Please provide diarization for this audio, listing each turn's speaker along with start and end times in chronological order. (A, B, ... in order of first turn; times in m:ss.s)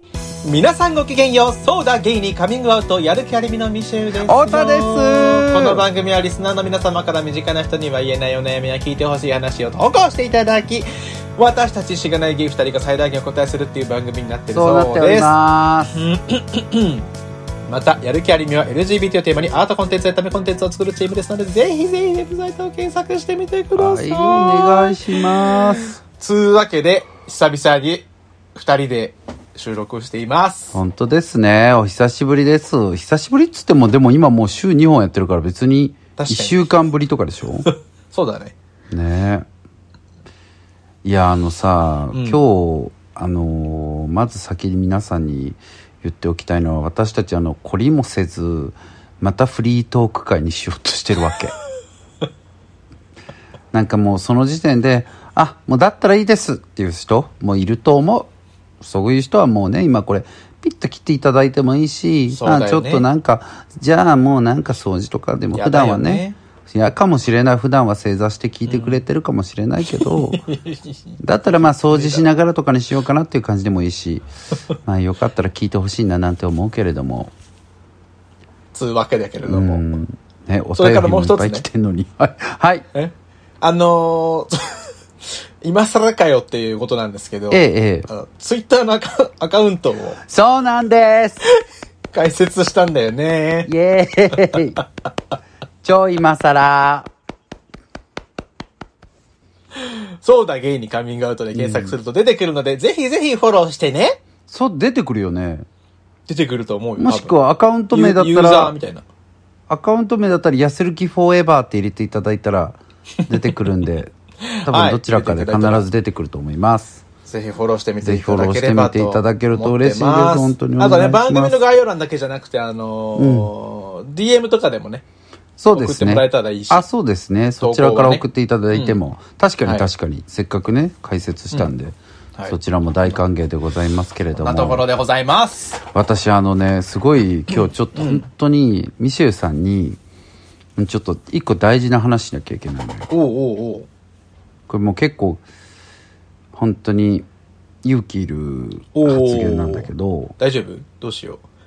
0:00.4-0:15.3 A
0:04.2-0:05.8 B
0:14.5-0:16.0 B
0:15.9-0:17.1 A
0:17.7-0:25.3 A
0:23.7-0:26.0 B
0:26.1-0:30.8 A
0:30.7-0:37.7 B
0:36.2-0:36.7 A
0:37.6-0:38.6 A
0:38.9-0:39.4 B
0:41.0-0:51.5 B
0:42.1-0:42.4 A
0:53.7-0:58.3 B
0:58.8-1:10.4 B
1:02.3-1:03.0 A
1:05.5-1:06.4 A
1:08.7-1:09.0 A
1:09.9-1:11.2 A
1:11.2-1:14.2 B
1:11.9-1:12.2 A
1:14.8-1:17.3 B
1:18.7-1:19.8 A
1:19.5-1:22.8 B
1:20.8-1:21.6 A
1:22.9-1:24.8 A
1:25.6-1:30.2 A
1:27.5-1:28.1 B
1:30.3-1:31.4 B
1:32.1-1:33.7 A
1:33.7-1:34.8 B
1:35.8-1:37.1 B
1:39.7-1:44.2 A
1:41.5-1:41.9 B
1:44.5-1:45.6 B
1:46.3-1:47.3 A
1:47.0-1:48.7 B
1:47.9-1:49.0 A
1:49.7-1:54.1 B
1:54.5-1:55.9 A
1:54.6-1:57.0 B
1:57.2-2:05.0 A
1:58.0-2:01.6 B
2:03.2-2:03.5 B
2:05.6-2:14.8 B
2:05.7-2:06.8 A
2:07.6-2:09.0 A
2:14.4-2:15.8 A
2:15.9-2:20.0 B
2:17.9-2:18.2 A
2:20.8-2:23.1 B
2:23.1-2:23.9 A
2:24.7-2:25.4 B
2:26.5-2:27.3 B
2:27.8-2:30.3 B
2:28.9-2:31.4 A